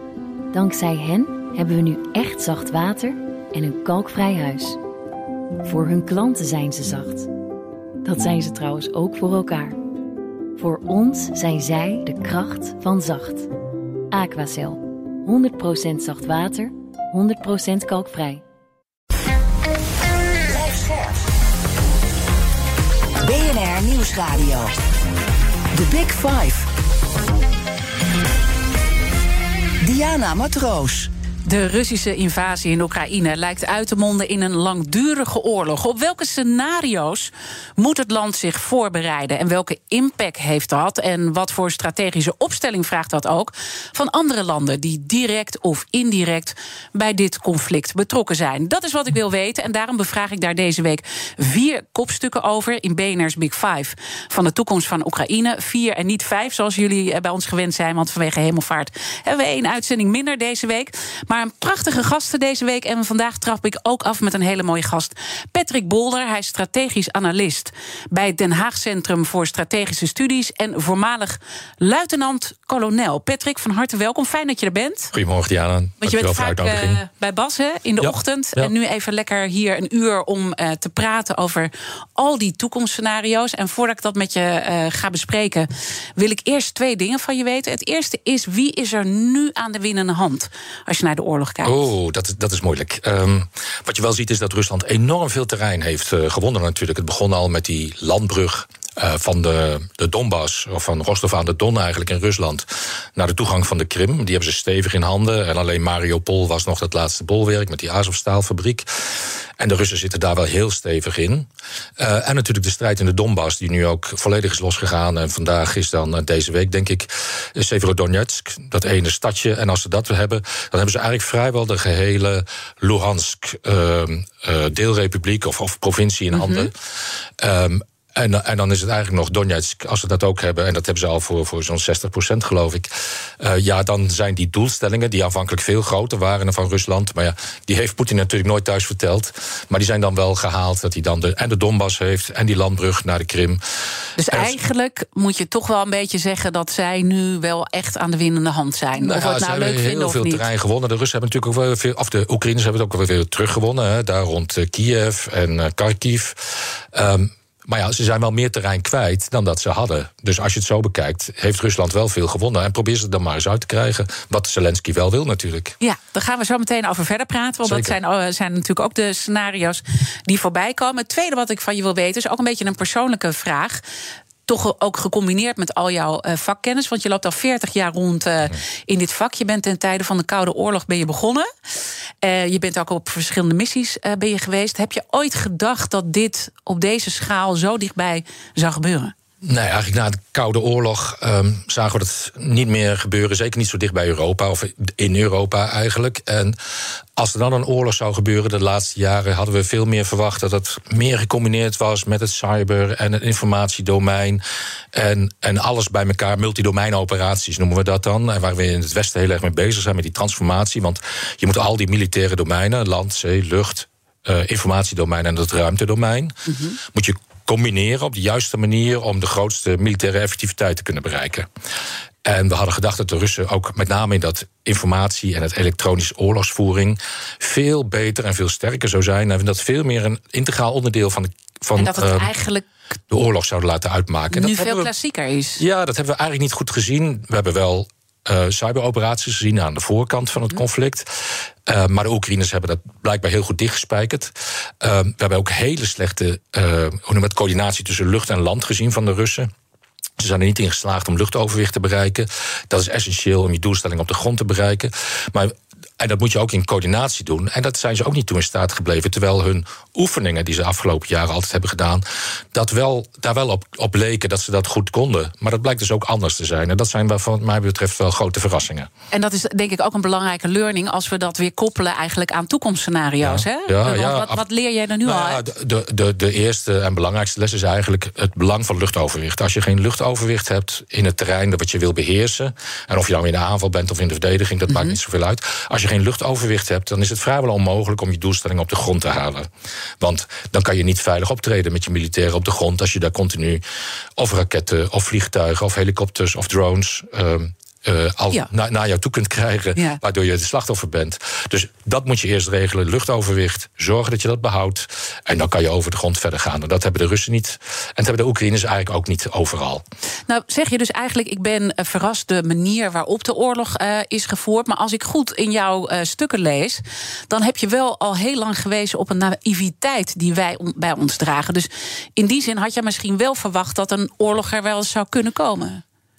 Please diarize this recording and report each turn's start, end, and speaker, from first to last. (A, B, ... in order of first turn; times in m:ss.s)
0:00.5-0:04.8 A
0:05.6-0:07.3 A
0:08.0-0:09.8 A
0:10.6-0:13.5 A
0:14.1-0:18.4 A
0:20.5-0:21.2 B
0:23.2-0:24.7 B
0:25.7-0:26.7 B
0:29.8-0:31.1 B
0:31.4-1:15.1 C
1:15.1-1:17.0 D
1:16.0-1:31.8 C
1:18.0-1:18.7 D
1:31.6-2:23.6 D
2:06.3-2:06.7 C
2:24.2-2:30.4 C
2:24.3-2:24.6 D
2:29.0-2:45.8 D
2:45.8-2:53.8 C
2:47.6-2:48.0 D
2:54.5-3:01.5 C
3:02.2-3:09.1 C
3:09.4-3:16.6 D
3:17.2-3:24.4 D
3:24.9-3:41.5 D
3:36.5-3:36.8 C
3:42.2-3:52.3 D
3:51.8-3:52.7 C
3:53.1-3:54.9 D
3:54.3-3:55.6 C
3:55.6-4:09.5 D
4:10.2-4:28.9 D
4:29.1-4:35.4 C
4:33.2-4:34.4 D
4:35.0-4:49.5 D
4:44.7-4:45.0 C
4:50.0-4:53.6 D
4:54.2-5:09.8 D
5:10.3-5:25.8 C